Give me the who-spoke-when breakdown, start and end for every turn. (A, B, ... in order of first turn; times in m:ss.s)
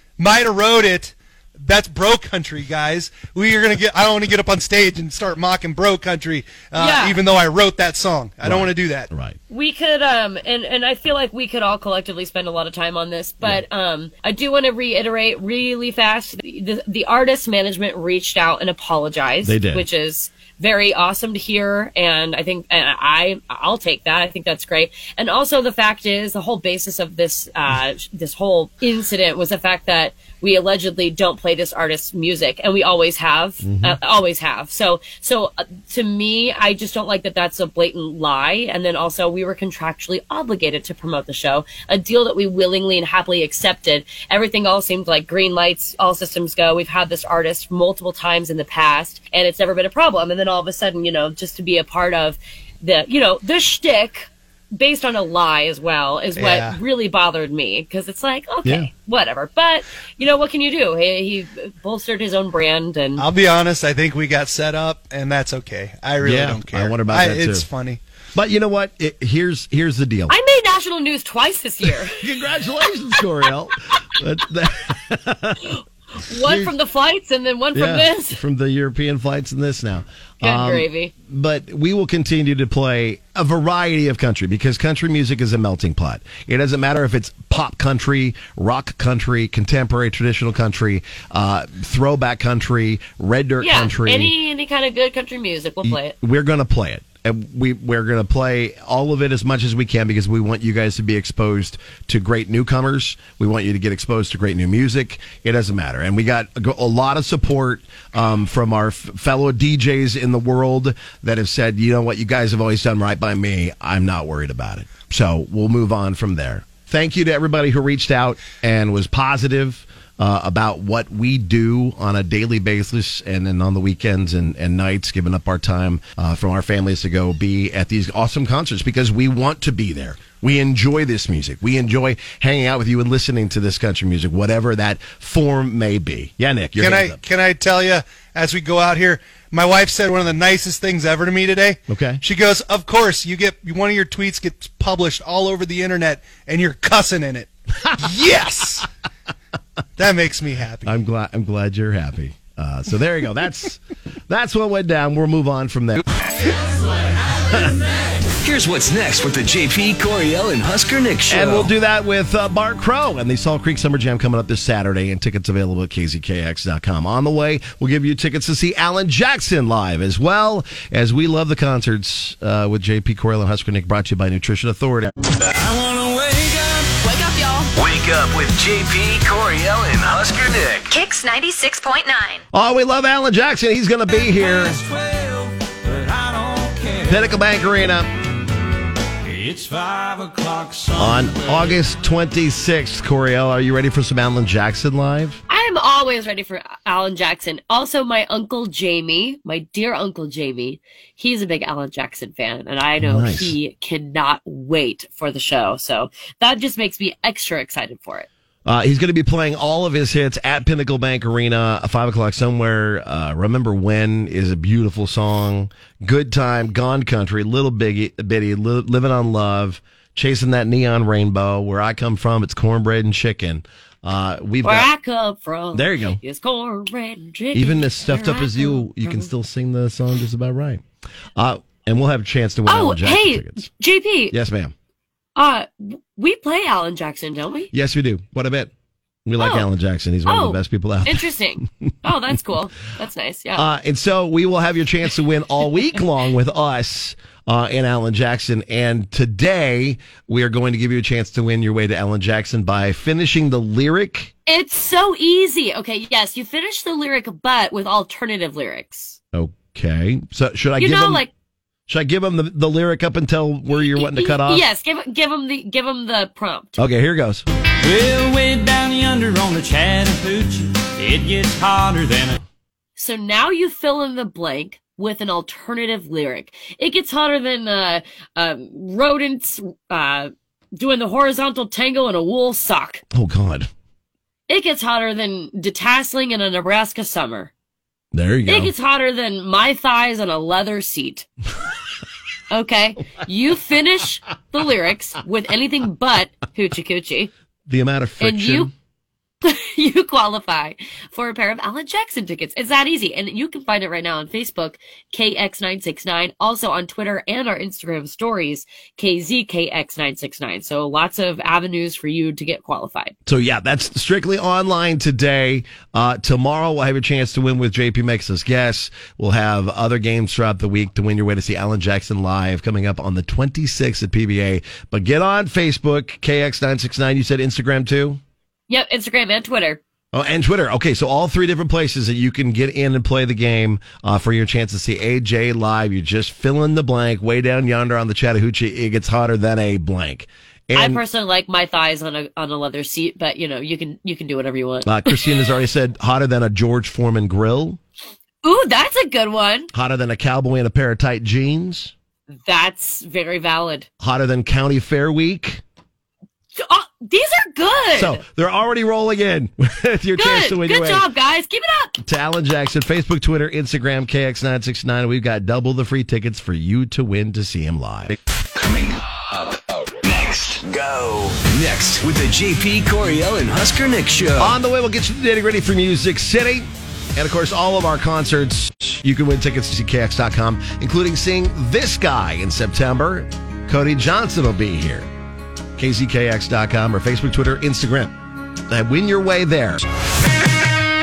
0:00.2-0:09.1 A
0:06.8-0:07.2 B
0:08.4-0:09.4 C
0:09.5-1:03.2 B
0:19.4-0:19.8 C
0:33.6-0:34.0 C
0:56.4-0:56.8 A
0:58.6-0:58.9 C
1:03.2-1:08.0 A
1:06.2-1:07.7 C
1:08.4-1:10.3 C
1:10.3-1:12.2 B
1:12.1-1:15.7 C
1:16.2-1:18.4 B
1:16.4-1:16.7 C
1:17.7-1:34.3 C
1:20.4-1:21.1 B
1:33.6-1:36.2 B
1:35.8-2:17.2 C
2:16.8-2:28.9 A
2:21.9-2:22.2 C
2:30.0-2:30.9 A
2:30.8-2:36.0 C
2:37.5-2:37.8 C
2:38.4-2:41.7 D
2:41.3-2:55.1 C
2:57.0-2:57.7 E
2:57.8-3:00.9 D
3:00.9-3:02.4 E
3:02.5-3:04.8 C
3:04.9-3:05.2 F
3:05.9-3:06.9 F
3:07.0-3:08.1 C
3:09.4-3:10.8 F
3:10.9-3:15.4 C
3:15.5-3:28.3 B
3:23.0-3:23.6 C
3:28.6-3:44.9 C
3:44.6-3:49.3 B
3:45.7-3:46.2 C
3:47.5-3:50.8 C
3:51.4-3:53.7 C
3:52.7-3:54.4 B
3:54.3-3:54.7 C
3:55.4-3:57.7 B
3:57.7-3:58.7 C
3:59.3-4:01.7 C
3:59.4-3:59.7 B
4:00.3-4:03.7 B
4:03.6-4:14.3 C
4:14.5-4:19.2 B
4:19.3-4:21.2 C
4:20.8-4:21.3 B
4:21.9-4:24.7 C
4:23.8-4:26.8 B
4:26.8-4:27.4 C
4:27.9-4:32.4 F
4:33.0-4:43.0 B
4:43.1-4:43.7 C
4:44.5-4:47.5 B
4:48.1-4:48.7 C
4:48.5-4:51.3 B
4:52.5-4:57.3 B
4:57.7-4:58.7 C
4:58.2-4:58.7 B
4:59.4-5:13.2 B
5:13.3-5:28.2 C
5:28.7-5:29.8 B
5:30.1-5:41.0 C
5:40.8-5:45.1 B
5:44.8-5:47.8 C
5:48.4-5:49.7 B
5:49.7-5:51.9 C
5:52.5-5:53.9 B
5:54.0-5:55.6 C
5:56.6-5:58.2 B
5:58.0-6:01.1 C
6:00.2-6:02.0 B
6:02.0-6:08.2 C
6:10.5-6:14.6 D
6:14.4-6:25.1 C
6:25.8-6:28.1 C
6:28.7-6:29.8 C